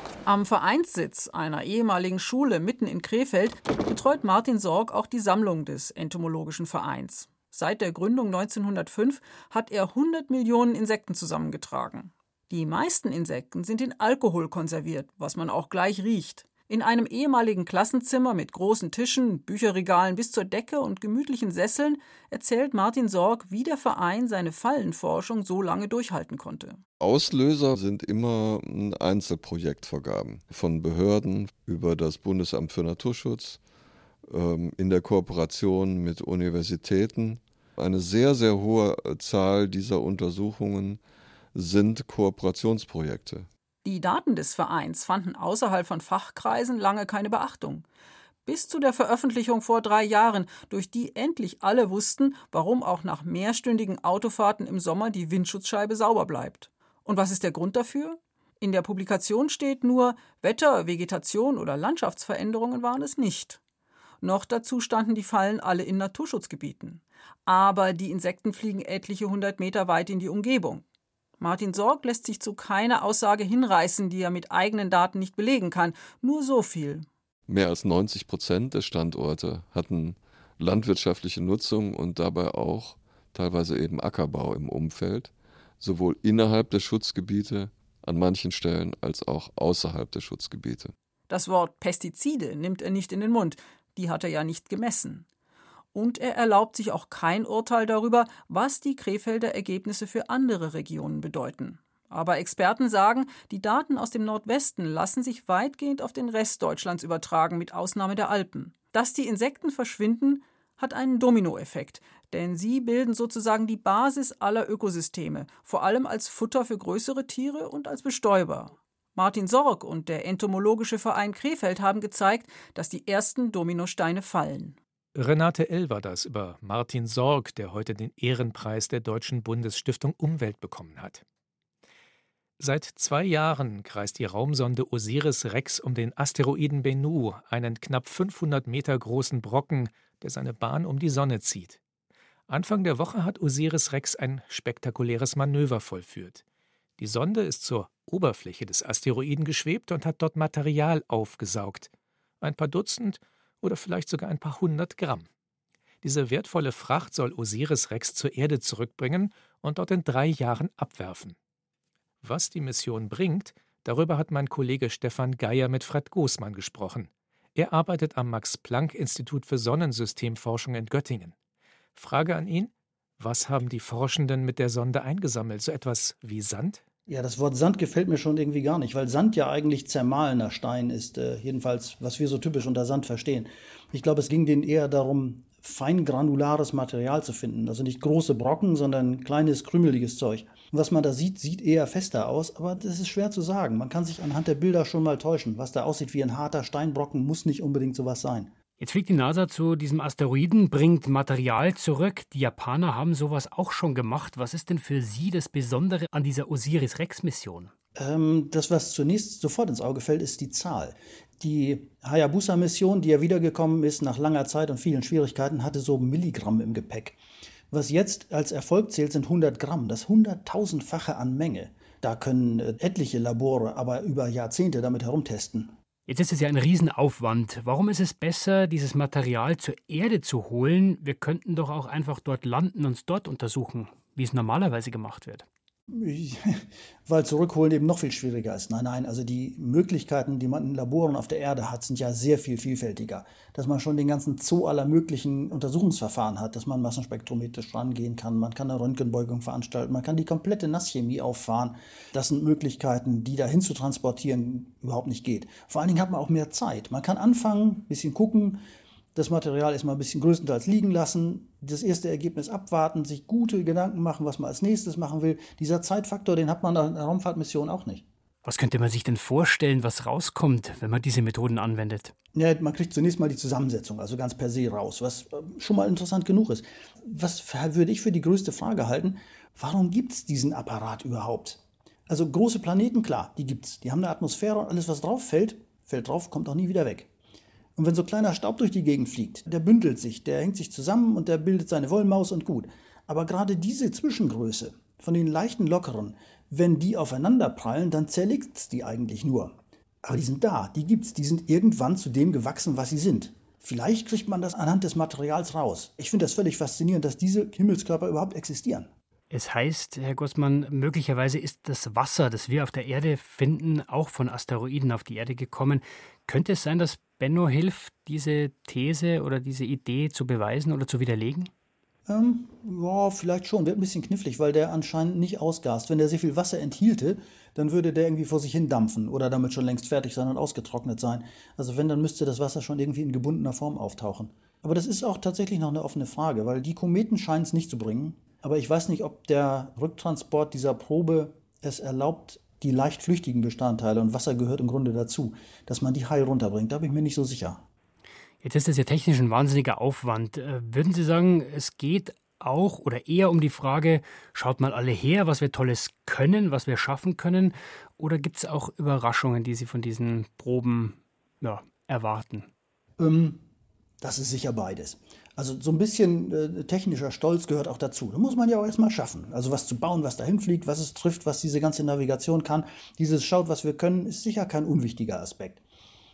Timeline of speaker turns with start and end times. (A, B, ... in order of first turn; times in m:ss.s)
0:00.3-0:26.8 A
0:27.0-0:33.6 B
0:34.3-0:41.0 B
0:41.5-0:43.5 B
0:43.8-0:47.8 A
0:48.5-1:03.6 A
1:04.2-1:10.8 A
1:11.4-1:17.1 A
1:17.5-1:30.9 B
1:31.3-1:35.3 A
1:35.9-2:04.8 A
2:05.2-2:11.2 C
2:12.6-2:21.8 C
2:22.5-2:26.4 C
2:27.0-2:35.3 C
2:36.0-2:41.4 C
2:42.2-2:51.4 C
2:52.0-2:56.8 C
2:57.1-3:18.5 D
3:18.8-3:27.7 E
3:28.0-3:37.2 D
3:37.7-3:45.7 D
3:46.1-3:55.5 E
3:55.9-4:18.6 D
4:19.2-4:28.0 D
4:28.4-4:32.1 E
4:32.4-4:47.1 D
4:47.8-5:08.9 D
5:09.3-5:21.5 E
5:22.1-5:47.6 D
5:48.4-6:02.5 E
6:03.0-6:03.4 D
6:04.0-6:15.6 D